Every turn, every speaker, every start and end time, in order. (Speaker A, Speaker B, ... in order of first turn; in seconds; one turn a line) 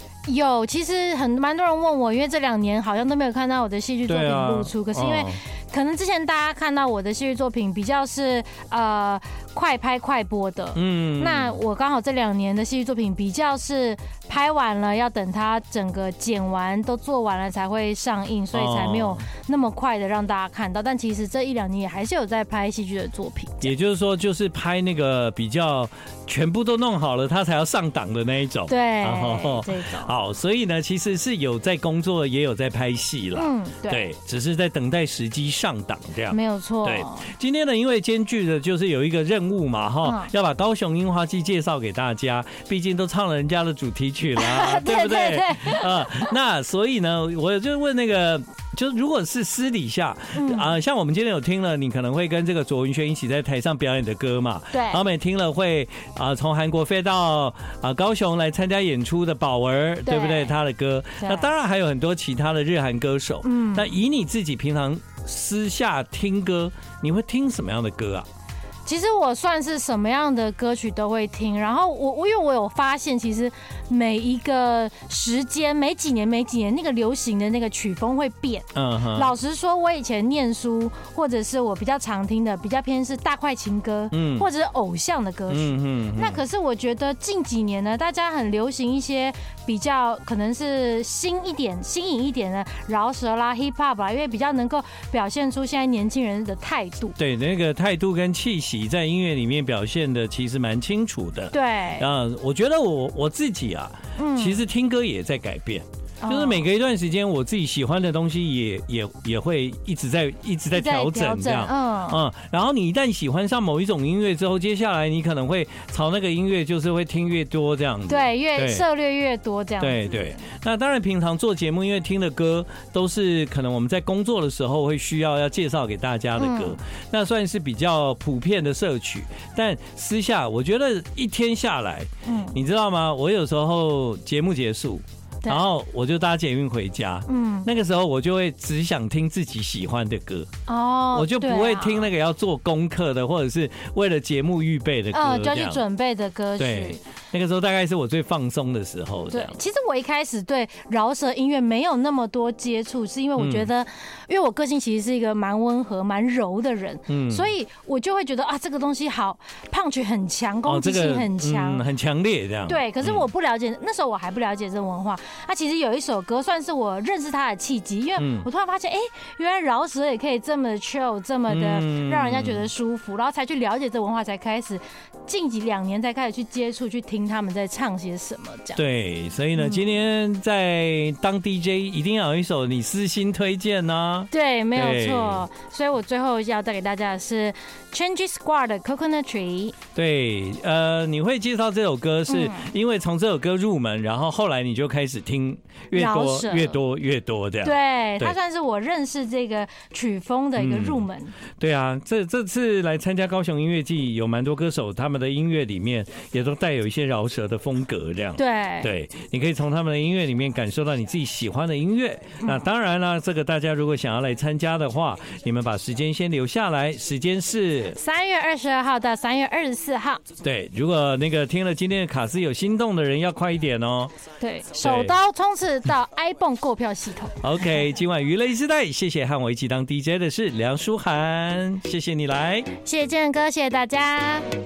Speaker A: 0.3-23.7
Speaker B: 4.1-5.4
Speaker B: 10.8-11.6
Speaker B: 18.5-19.2
Speaker B: 23.6-68.3
Speaker A: 28.7-30.1
Speaker A: 33.4-34.1
Speaker A: 36.3-37.2
Speaker A: 40.0-40.3
Speaker A: 44.4-46.3
Speaker A: 50.4-50.7
Speaker A: 54.7-55.0
Speaker A: 60.1-60.6
Speaker A: 61.2-61.5
Speaker A: 63.4-63.9
Speaker A: 68.9-97.2
Speaker B: 78.8-79.3
Speaker B: 84.1-84.5
Speaker B: 85.5-86.4
Speaker B: 97.2-118.8
Speaker A: 101.5-102.1
Speaker A: 104.2-104.6
Speaker A: 106.2-106.7
Speaker A: 110.7-112.2
Speaker A: 118.1-120.4
Speaker B: 119.8-140.5
Speaker A: 126.4-126.8
Speaker A: 132.2-132.6
Speaker A: 137.3-137.7
Speaker A: 140.7-142.1
Speaker B: 141.1-145.8
Speaker A: 145.1-147.0
Speaker B: 146.6-149.6
Speaker A: 149.3-161.8
Speaker B: 153.4-153.7
Speaker B: 157.1-157.5
Speaker B: 160.7-163.2
Speaker A: 162.7-178.8
Speaker B: 168.2-168.5
Speaker B: 171.5-172.7
Speaker B: 178.8-185.4
Speaker A: 179.6-179.9
Speaker A: 184.3-189.8
Speaker B: 189.9-198.4
Speaker A: 192.3-192.7
Speaker A: 195.9-196.8
Speaker A: 197.6-201.4
Speaker B: 200.6-201.1
Speaker B: 201.6-218.0
Speaker A: 208.4-208.9
Speaker A: 218.0-220.2
Speaker B: 220.4-224.1
Speaker A: 224.4-227.4
Speaker B: 224.8-225.1
Speaker B: 227.4-232.7
Speaker A: 232.8-234.5